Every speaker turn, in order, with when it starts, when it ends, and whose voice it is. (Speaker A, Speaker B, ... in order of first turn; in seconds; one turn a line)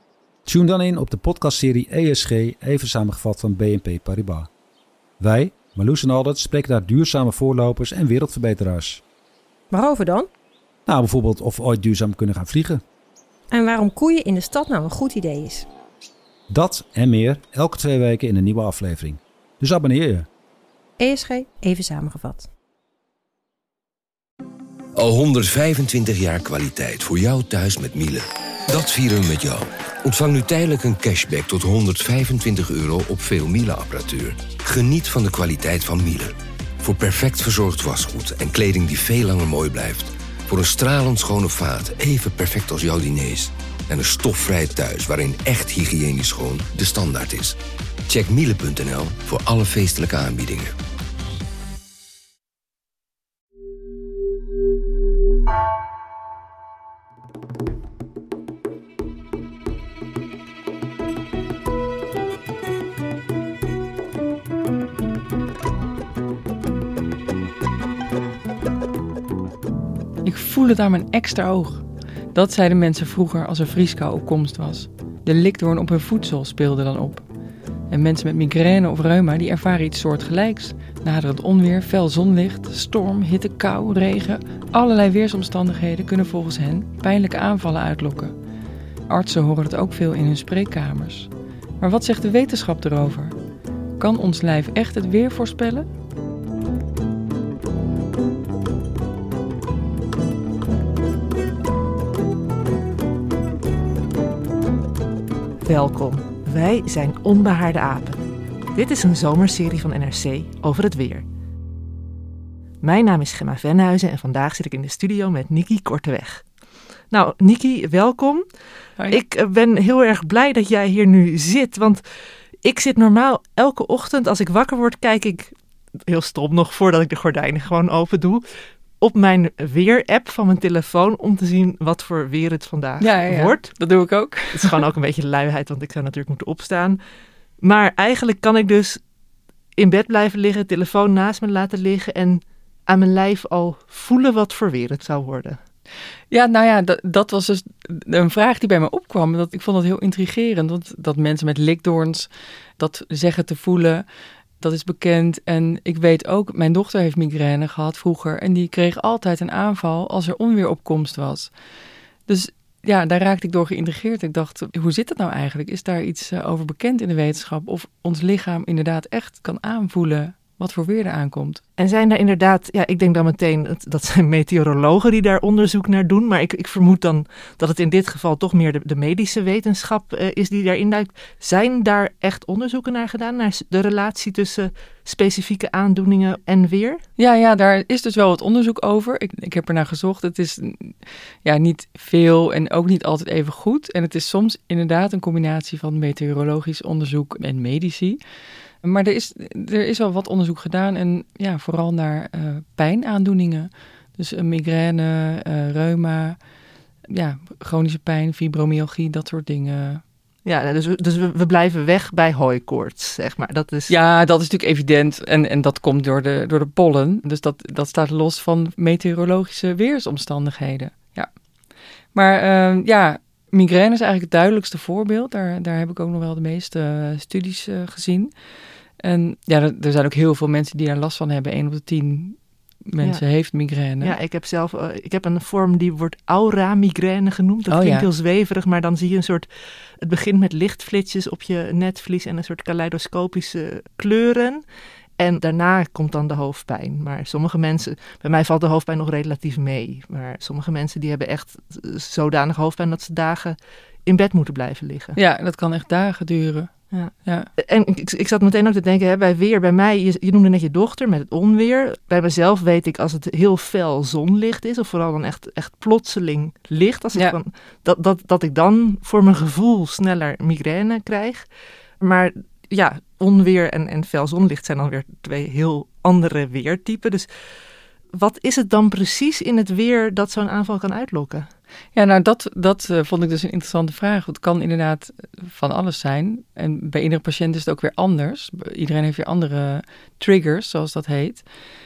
Speaker A: 0.4-4.5
Speaker A: 5.2-9.0
Speaker B: 9.7-10.3
Speaker A: 10.9-12.8
Speaker B: 13.5-15.7
Speaker A: 16.5-20.3
Speaker B: 21.0-22.5
Speaker C: 24.9-47.5
Speaker C: 48.1-50.7
Speaker D: 70.2-77.2
Speaker D: 77.9-88.3
Speaker D: 89.1-93.4
Speaker D: 94.0-95.9
Speaker E: 105.6-108.2
Speaker E: 108.7-111.2
Speaker E: 112.8-116.4
Speaker E: 117.1-118.4
Speaker E: 119.1-122.0
Speaker E: 122.6-125.5
Speaker E: 126.1-128.4
Speaker E: 129.0-133.7
Speaker D: 133.0-134.8
Speaker E: 134.5-137.0
Speaker E: 137.6-139.0
Speaker E: 139.8-145.6
Speaker D: 146.3-154.1
Speaker D: 154.6-161.5
Speaker D: 162.3-171.6
Speaker E: 171.8-187.0
Speaker D: 187.2-198.2
Speaker D: 198.8-206.4
Speaker D: 207.1-210.0
Speaker E: 210.4-213.9
Speaker D: 213.9-221.3
Speaker D: 222.1-228.3
Speaker D: 229.0-234.2
Speaker E: 234.0-239.5
Speaker D: 237.7-238.1
Speaker E: 240.0-244.6
Speaker E: 245.2-255.2
Speaker D: 255.2-256.7
Speaker E: 256.9-271.4
Speaker D: 257.2-257.5
Speaker E: 272.0-277.3
Speaker E: 278.1-281.5
Speaker D: 281.9-291.4